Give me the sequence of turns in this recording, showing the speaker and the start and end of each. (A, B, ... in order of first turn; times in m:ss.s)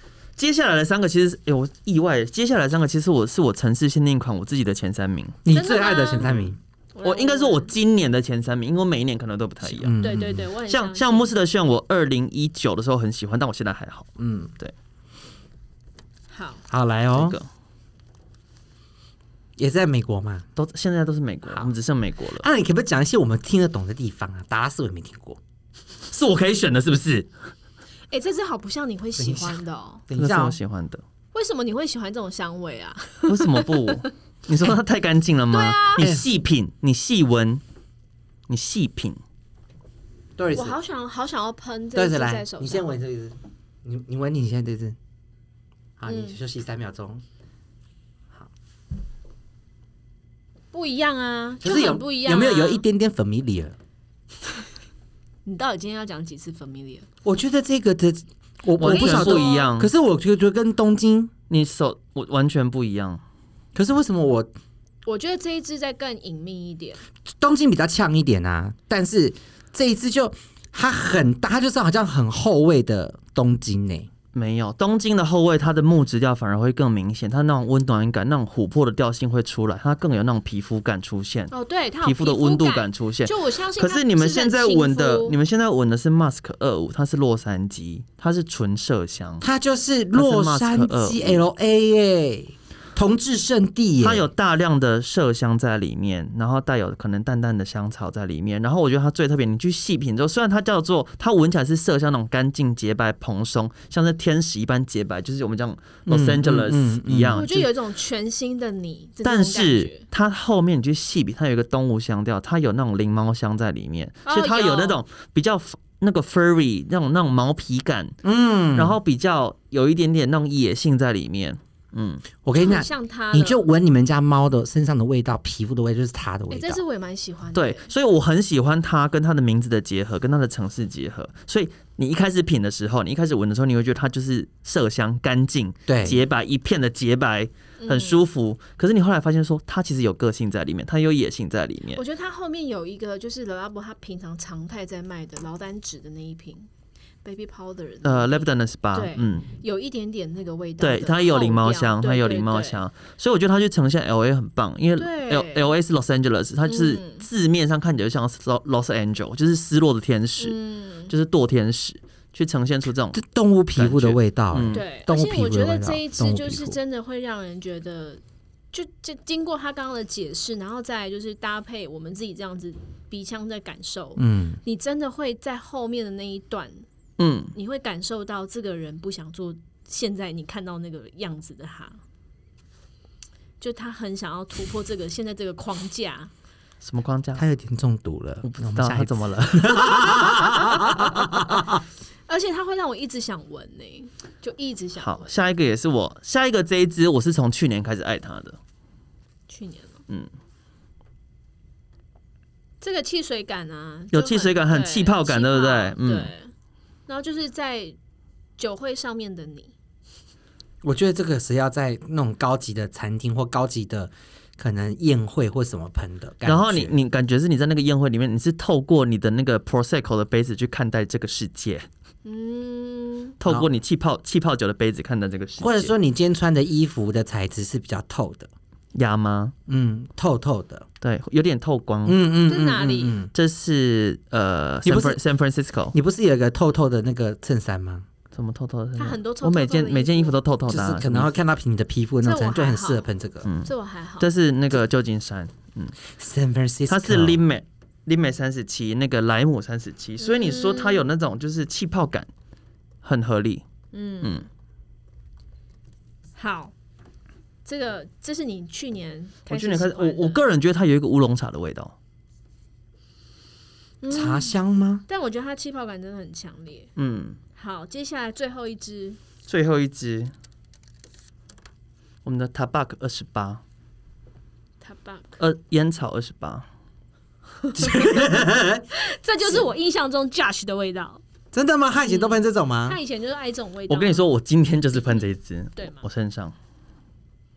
0:00.4-0:05.4 A
0:05.4-0:06.6 B
0:05.5-0:06.4 C
0:06.2-0:06.5 A
0:07.0-0:07.7 C
0:07.0-0:09.9 A
0:09.6-0:10.5 B
0:10.0-0:11.3 C
0:10.7-0:14.7 A
0:14.2-0:14.5 B
0:16.3-0:16.6 C
0:16.7-0:17.4 B
0:17.1-0:17.5 A
0:19.6-0:20.5 B
0:20.6-0:22.5 A
0:22.4-0:25.4 B
0:26.1-0:27.3 A
0:28.1-0:30.0 C
0:29.2-0:30.6 B
0:30.2-0:31.0 A
0:31.3-0:34.0 C
0:33.3-0:37.6 A
0:35.5-0:36.1 C
0:36.0-0:36.2 B
0:38.5-0:39.2 A
0:40.4-0:40.8 B
0:40.5-0:42.9 C
0:42.0-0:45.0 B
0:46.0-0:47.2 B
0:46.1-0:46.4 C
0:50.7-0:52.8 C
0:51.6-0:53.8 B
0:55.4-0:57.1 C
0:57.2-1:01.3 B
0:58.8-0:59.9 A
0:58.8-0:59.7 C
1:01.5-1:03.2 A
1:03.8-1:04.5 B
1:05.1-1:07.0 C
1:07.3-1:14.1 B
1:14.3-1:29.4 A
1:21.5-1:25.4 C
1:29.4-1:34.3 B
1:30.1-1:31.4 A
1:34.0-1:47.7 A
1:46.1-1:47.4 B
1:47.3-1:50.0 C
1:49.2-1:58.2 A
1:54.3-1:55.0 C
1:58.2-1:59.0 B
1:58.7-2:02.2 A
2:02.4-2:06.8 B
2:02.6-2:03.6 C
2:06.5-2:07.9 C
2:07.5-2:22.0 A
2:15.9-2:16.2 B
2:17.8-2:18.2 C
2:21.9-2:26.7 C
2:27.2-2:32.8 C
2:28.0-2:29.5 A
2:30.8-2:40.6 A
2:35.0-2:35.7 C
2:36.7-2:37.2 C
2:40.4-2:41.1 C
2:41.1-2:43.2 A
2:43.1-2:46.8 B
2:43.8-2:44.8 A
2:44.7-2:48.2 C
2:48.7-2:56.9 C
2:54.2-2:54.6 B
2:57.2-2:57.5 A
2:57.5-3:02.0 C
3:03.6-3:06.3 C
3:06.8-3:07.4 A
3:07.4-3:11.8 B
3:08.4-3:11.1 A
3:12.3-3:15.4 C
3:15.0-3:18.6 A
3:19.5-3:20.0 C
3:22.8-3:26.5 C
3:24.1-3:26.3 A
3:27.1-3:28.0 C
3:28.6-3:29.7 C
3:30.8-3:37.0 B
3:36.4-3:41.9 A
3:42.2-3:43.4 C
3:43.4-3:45.9 A
3:45.6-3:48.5 B
3:49.0-3:49.5 A
3:49.7-3:50.9 B
3:51.0-3:52.2 A
3:52.1-3:53.3 B
3:52.5-3:53.2 C
3:53.3-3:55.9 A
3:54.8-3:55.2 B
3:55.9-3:58.1 B
3:58.3-4:01.4 A
3:59.0-4:00.4 C
4:00.7-4:03.5 B
4:02.2-4:03.1 C
4:03.4-4:06.0 A
4:03.6-4:04.3 C
4:06.2-4:07.4 B
4:06.9-4:12.3 A
4:10.2-4:11.0 C
4:13.0-4:13.6 A
4:13.9-4:14.4 C
4:16.4-4:16.7 C
4:17.6-4:20.4 C
4:19.5-4:21.9 A
4:24.0-4:26.9 C
4:24.1-4:25.0 B
4:27.0-4:27.4 A
4:27.6-4:29.2 C
4:29.5-4:30.3 A
4:32.2-4:33.6 A
4:34.8-4:35.4 C
4:35.4-4:36.7 A
4:37.7-4:38.1 C
4:37.8-4:38.8 B
4:38.9-4:41.2 C
4:41.5-4:43.0 B
4:42.1-4:44.2 C
4:43.9-4:46.5 A
4:45.8-4:46.1 C